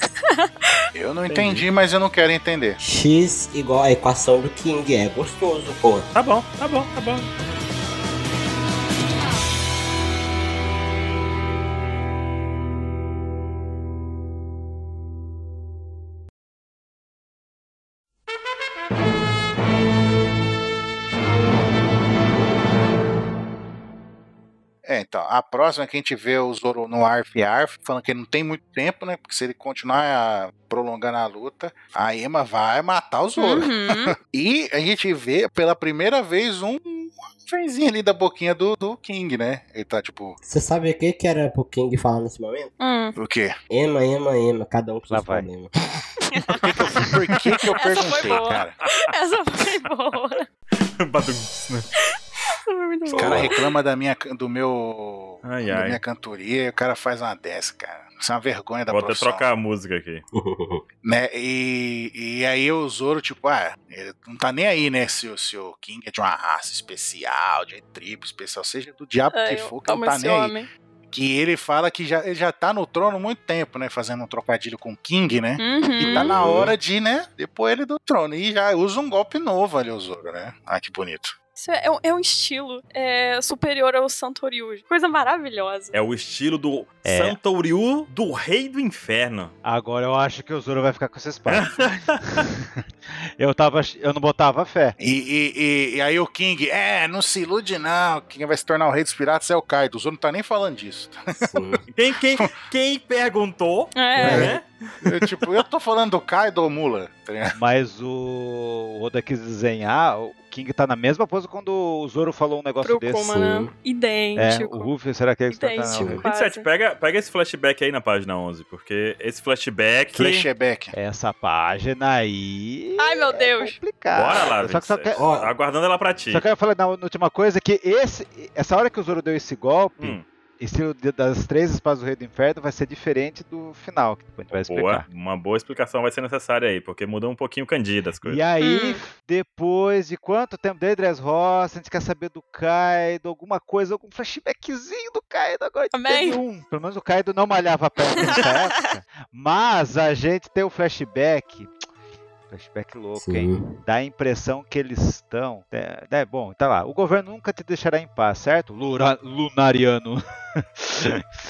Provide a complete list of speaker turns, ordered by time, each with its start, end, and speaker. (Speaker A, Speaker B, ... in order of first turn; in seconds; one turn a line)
Speaker A: 0.2-0.8
Speaker B: 0.9-2.8
Speaker C: 1.3-1.7
Speaker D: 2.8-6.1
Speaker C: 6.1-7.3
Speaker B: 24.8-40.4
Speaker A: 33.4-34.1
Speaker D: 40.4-42.7
Speaker A: 42.8-43.1
Speaker B: 43.2-43.5
Speaker D: 43.7-45.7
Speaker E: 45.1-45.5
Speaker A: 46.3-47.1
Speaker B: 46.6-48.8
Speaker A: 47.7-50.5
Speaker E: 48.1-48.6
Speaker C: 48.8-49.1
Speaker C: 50.8-51.9
Speaker A: 52.0-53.7
Speaker B: 53.2-59.4
Speaker D: 53.2-53.5
Speaker C: 55.4-56.0
Speaker C: 58.9-60.2
Speaker D: 60.3-60.8
Speaker B: 61.0-70.5
Speaker A: 69.3-70.7
Speaker B: 71.1-81.3
Speaker A: 75.6-76.6
Speaker D: 76.0-76.7
Speaker A: 81.5-85.9
Speaker C: 85.9-89.5
Speaker E: 87.0-87.4
Speaker E: 89.6-91.7
Speaker C: 91.5-92.4
Speaker E: 93.4-95.0
Speaker B: 95.0-101.5
Speaker D: 101.3-101.8
Speaker C: 101.9-105.3
Speaker A: 103.9-104.5
Speaker E: 104.2-104.5
Speaker B: 104.2-107.5
Speaker E: 107.6-113.3
Speaker A: 112.8-114.9
Speaker D: 113.3-113.7
Speaker E: 114.3-116.2
Speaker A: 115.5-116.6
Speaker D: 115.9-116.2
Speaker C: 116.2-120.5
Speaker B: 120.1-120.9
Speaker E: 120.9-125.2
Speaker A: 123.0-123.8
Speaker C: 124.1-126.4
Speaker D: 125.1-125.5
Speaker E: 126.3-135.1
Speaker C: 130.0-130.2
Speaker C: 134.7-138.4
Speaker E: 138.2-151.7
Speaker A: 138.6-139.0
Speaker A: 145.9-146.4
Speaker A: 148.2-148.8
Speaker E: 152.5-161.2
Speaker D: 153.1-153.7